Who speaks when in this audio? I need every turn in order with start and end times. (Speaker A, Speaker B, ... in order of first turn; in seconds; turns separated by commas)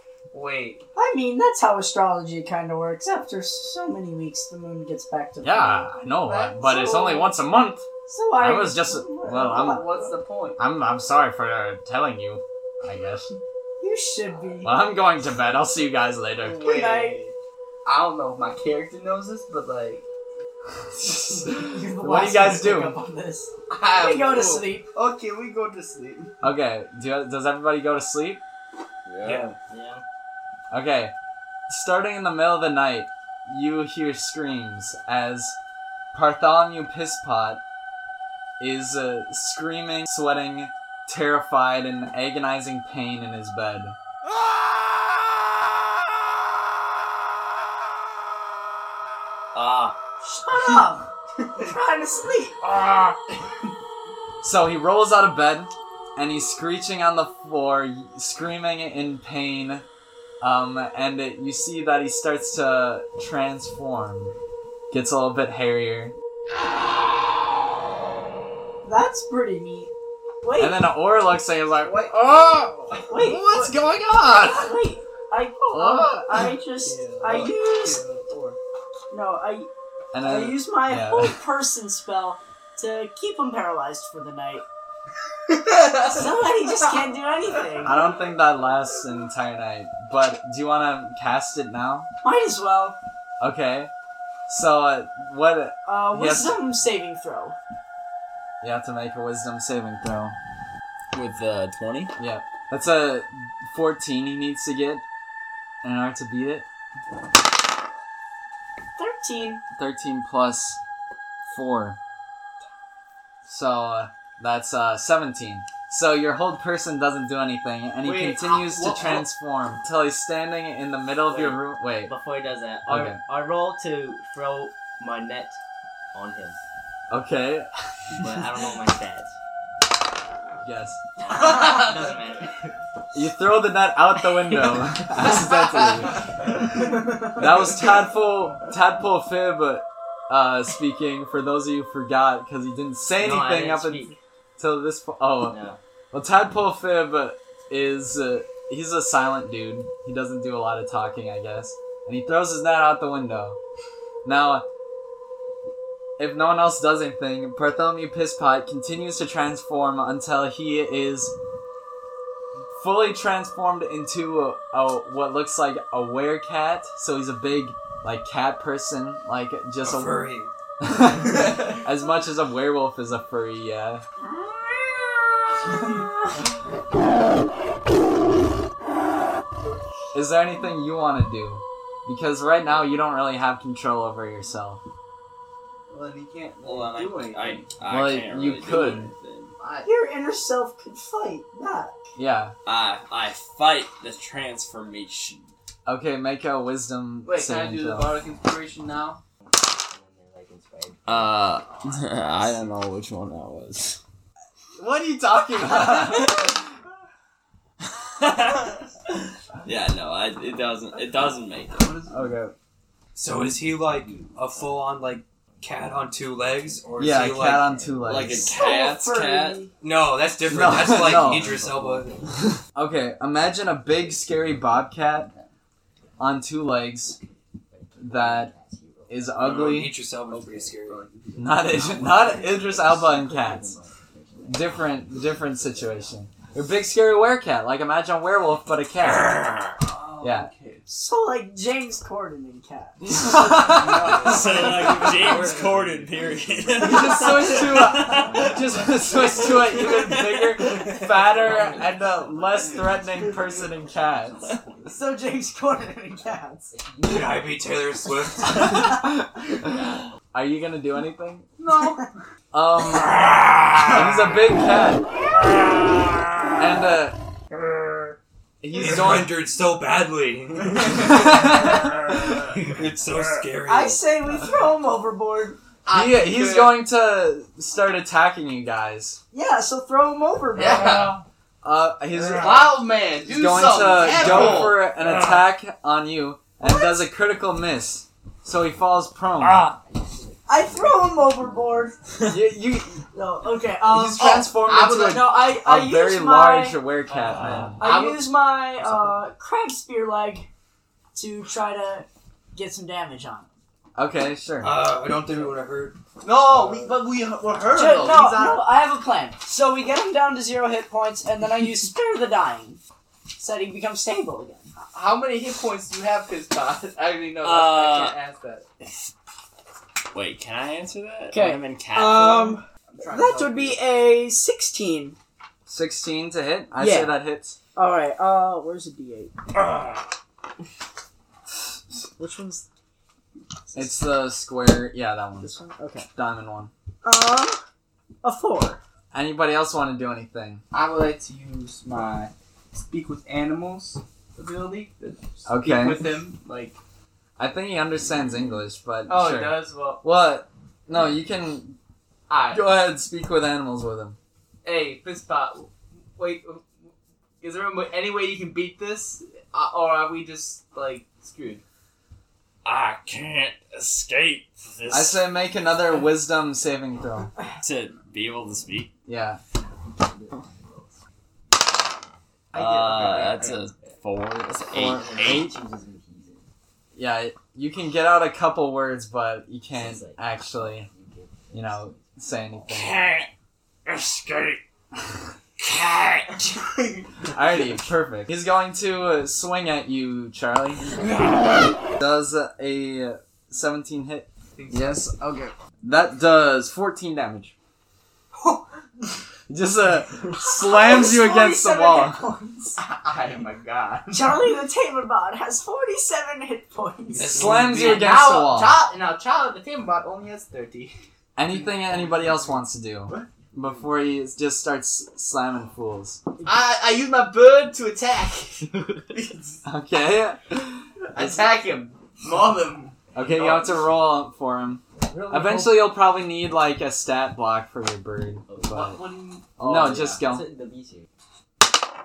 Speaker A: 0.3-0.8, Speaker B: 0.9-5.9, Speaker C: 5.4-7.9, Speaker A: 6.3-6.6, Speaker B: 6.6-7.3, Speaker B: 8.1-10.1, Speaker C: 8.4-9.8, Speaker A: 9.4-10.6, Speaker C: 10.6-13.3, Speaker B: 13.8-14.7, Speaker C: 14.6-16.6, Speaker A: 16.4-17.3, Speaker B: 16.6-17.2, Speaker A: 17.8-20.0, Speaker C: 20.9-23.0, Speaker B: 21.5-24.9, Speaker A: 23.7-26.3, Speaker C: 26.4-28.4, Speaker D: 29.1-29.5, Speaker E: 29.2-29.5, Speaker F: 29.7-30.0, Speaker C: 30.7-31.1, Speaker C: 31.7-35.6, Speaker C: 36.1-37.6, Speaker C: 38.6-44.0, Speaker D: 49.5-50.0, Speaker B: 50.2-52.6, Speaker D: 52.8-53.1, Speaker C: 54.4-59.8, Speaker C: 60.4-64.4, Speaker C: 64.9-66.1, Speaker B: 68.8-69.9, Speaker B: 70.4-70.9, Speaker C: 70.6-74.8, Speaker A: 71.8-72.1, Speaker B: 73.1-78.0, Speaker C: 75.7-76.4, Speaker A: 76.8-78.6, Speaker B: 79.1-84.6, Speaker C: 80.1-81.4, Speaker A: 85.5-87.0, Speaker B: 86.0-88.0, Speaker C: 87.8-92.1, Speaker B: 92.2-93.0, Speaker C: 93.4-93.9, Speaker C: 94.5-96.6, Speaker B: 95.8-97.6, Speaker C: 98.6-100.4, Speaker D: 101.1-102.2, Speaker C: 102.2-105.0, Speaker C: 105.8-106.7, Speaker B: 109.0-109.6, Speaker C: 109.7-110.8, Speaker C: 111.5-112.0, Speaker C: 113.5-122.1, Speaker A: 118.0-119.3, Speaker F: 121.2-125.6, Speaker C: 122.9-123.2, Speaker F: 126.1-126.6, Speaker C: 127.1-128.2, Speaker F: 128.1-129.3, Speaker C: 130.6-131.0, Speaker F: 131.2-132.7, Speaker A: 131.3-132.1, Speaker C: 133.1-136.2, Speaker A: 135.5-137.3, Speaker C: 137.3-145.6, Speaker F: 143.1-144.2, Speaker F: 145.4-145.8, Speaker C: 146.1-153.6, Speaker C: 154.2-154.6, Speaker C: 156.2-161.3, Speaker C: 162.8-170.2, Speaker E: 169.8-170.5, Speaker C: 170.8-174.0, Speaker C: 180.1-184.8, Speaker A: 185.9-187.7, Speaker D: 186.6-189.5, Speaker C: 187.9-189.1, Speaker A: 189.6-189.9, Speaker B: 189.8-192.0, Speaker C: 192.2-192.5, Speaker D: 192.6-195.5, Speaker C: 195.8-198.1, Speaker A: 197.2-199.2, Speaker F: 199.4-201.3, Speaker D: 201.1-204.0, Speaker C: 204.8-206.6, Speaker D: 207.9-208.8, Speaker D: 209.6-212.1, Speaker A: 211.8-212.1, Speaker C: 212.1-212.5, Speaker E: 213.1-218.3, Speaker F: 214.0-214.4, Speaker F: 216.7-218.4, Speaker C: 217.0-218.4, Speaker D: 218.1-219.6, Speaker B: 218.4-219.7, Speaker E: 219.8-222.2, Speaker C: 220.4-221.6, Speaker F: 220.7-222.3, Speaker C: 222.6-225.3, Speaker C: 226.2-227.2, Speaker F: 227.7-229.5, Speaker C: 228.0-228.5, Speaker C: 229.1-229.9, Speaker E: 229.4-231.1, Speaker A: 230.3-231.6, Speaker C: 231.3-233.8, Speaker F: 231.6-234.8, Speaker C: 234.4-239.4, Speaker F: 235.5-236.1, Speaker D: 239.1-239.8, Speaker A: 239.8-240.8, Speaker C: 240.2-240.5, Speaker B: 240.9-243.2, Speaker C: 243.0-245.4, Speaker E: 243.6-246.4, Speaker D: 244.0-248.3, Speaker A: 244.2-245.1, Speaker F: 245.3-249.9, Speaker C: 246.8-254.4, Speaker F: 250.8-255.2, Speaker B: 254.9-256.7, Speaker F: 256.2-257.5, Speaker E: 257.0-258.9, Speaker C: 258.5-259.8, Speaker C: 260.3-261.5, Speaker A: 261.6-262.1, Speaker C: 262.5-263.2, Speaker C: 263.9-265.1, Speaker C: 266.6-267.2, Speaker C: 268.6-269.3, Speaker E: 268.7-274.0, Speaker C: 270.9-271.9, Speaker B: 273.6-275.6, Speaker A: 275.9-276.8, Speaker C: 275.9-279.2, Speaker B: 279.3-281.2, Speaker A: 280.5-281.2, Speaker C: 281.6-289.7, Speaker A: 282.4-284.8, Speaker B: 286.6-287.0, Speaker D: 289.4-289.8, Speaker F: 289.9-291.5, Speaker B: 290.5-292.0, Speaker C: 292.2-293.0, Speaker B: 293.1-296.8, Speaker C: 293.8-297.8, Speaker A: 294.2-295.4, Speaker A: 297.4-298.3, Speaker B: 297.8-300.5, Speaker B: 301.1-303.5, Speaker C: 303.9-304.8, Speaker E: 304.6-306.9, Speaker A: 306.2-308.6, Speaker B: 307.7-312.8, Speaker B: 313.4-314.7, Speaker A: 314.9-318.6, Speaker D: 317.4-318.1, Speaker D: 318.8-319.1, Speaker D: 320.1-322.6, Speaker B: 321.3-325.1, Speaker A: 322.9-323.8, Speaker C: 325.6-327.6, Speaker B: 326.8-327.2, Speaker B: 327.7-329.3, Speaker B: 332.2-332.6, Speaker C: 333.7-335.5, Speaker B: 335.4-336.1, Speaker C: 336.1-336.7, Speaker B: 337.0-337.6, Speaker B: 338.2-338.8, Speaker C: 339.1-340.6, Speaker A: 340.7-346.8, Speaker C: 345.4-346.1, Speaker C: 347.4-351.8, Speaker A: 349.1-350.0, Speaker A: 352.3-352.6, Speaker C: 352.5-354.2, Speaker A: 354.6-356.7, Speaker A: 357.4-361.6, Speaker D: 362.6-365.3, Speaker C: 364.9-367.3, Speaker D: 367.6-368.9, Speaker C: 369.1-369.4, Speaker F: 369.8-370.9, Speaker A: 372.5-373.7, Speaker D: 372.5-375.5, Speaker F: 374.8-376.5, Speaker C: 376.9-380.9, Speaker F: 379.7-382.6, Speaker C: 381.5-383.0, Speaker D: 382.7-383.3, Speaker D: 383.8-384.6, Speaker D: 385.6-386.6, Speaker A: 386.7-387.0, Speaker C: 387.3-390.9, Speaker C: 392.0-397.5, Speaker A: 394.5-395.0, Speaker C: 399.5-402.2, Speaker B: 400.3-402.8, Speaker A: 402.8-404.4, Speaker B: 404.1-407.6, Speaker E: 407.1-408.1, Speaker C: 407.2-408.8, Speaker A: 407.6-411.0, Speaker C: 411.4-416.2, Speaker A: 411.5-412.2, Speaker A: 416.4-419.6, Speaker C: 419.6-421.4, Speaker A: 421.1-423.7, Speaker C: 423.1-429.0, Speaker B: 425.1-425.7, Speaker F: 428.5-428.8, Speaker A: 428.7-430.2, Speaker C: 429.6-430.4, Speaker F: 430.1-431.1